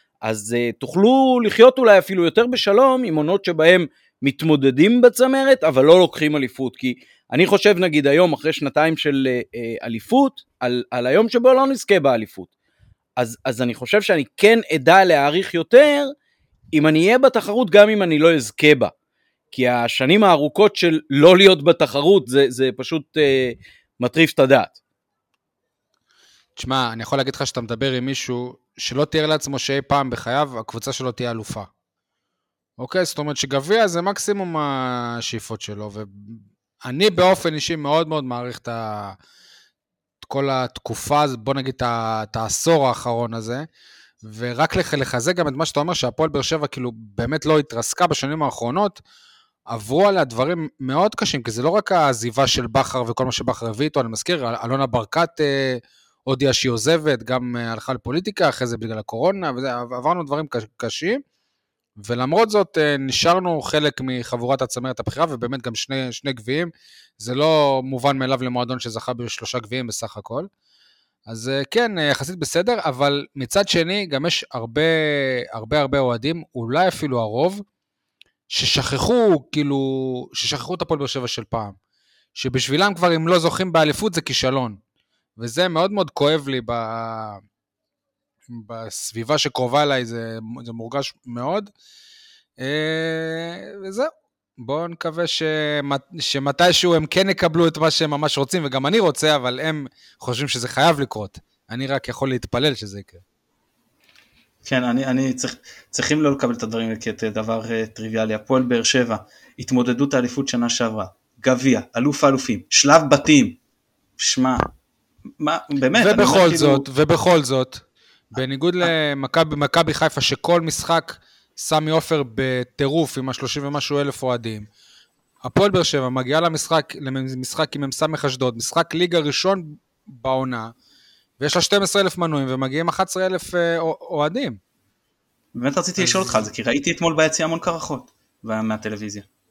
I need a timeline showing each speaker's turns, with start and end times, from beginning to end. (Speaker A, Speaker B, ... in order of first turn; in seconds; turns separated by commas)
Speaker A: 0.2-12.5, Speaker A: 13.2-16.1, Speaker A: 16.7-18.9, Speaker A: 19.5-24.8, Speaker B: 26.6-31.7, Speaker B: 32.8-39.2, Speaker B: 40.2-43.7, Speaker B: 44.2-49.0, Speaker B: 49.7-61.2, Speaker B: 62.0-70.5, Speaker B: 71.3-77.6, Speaker B: 78.5-81.8, Speaker B: 82.3-84.8, Speaker B: 85.4-87.4, Speaker B: 88.5-91.7, Speaker B: 92.6-103.2, Speaker C: 104.7-113.6, Speaker C: 114.2-114.6, Speaker C: 115.4-116.8, Speaker B: 115.9-117.8, Speaker B: 118.3-124.7, Speaker C: 118.3-118.9, Speaker B: 125.4-130.7, Speaker B: 131.4-134.6, Speaker C: 135.6-139.3, Speaker B: 136.0-136.4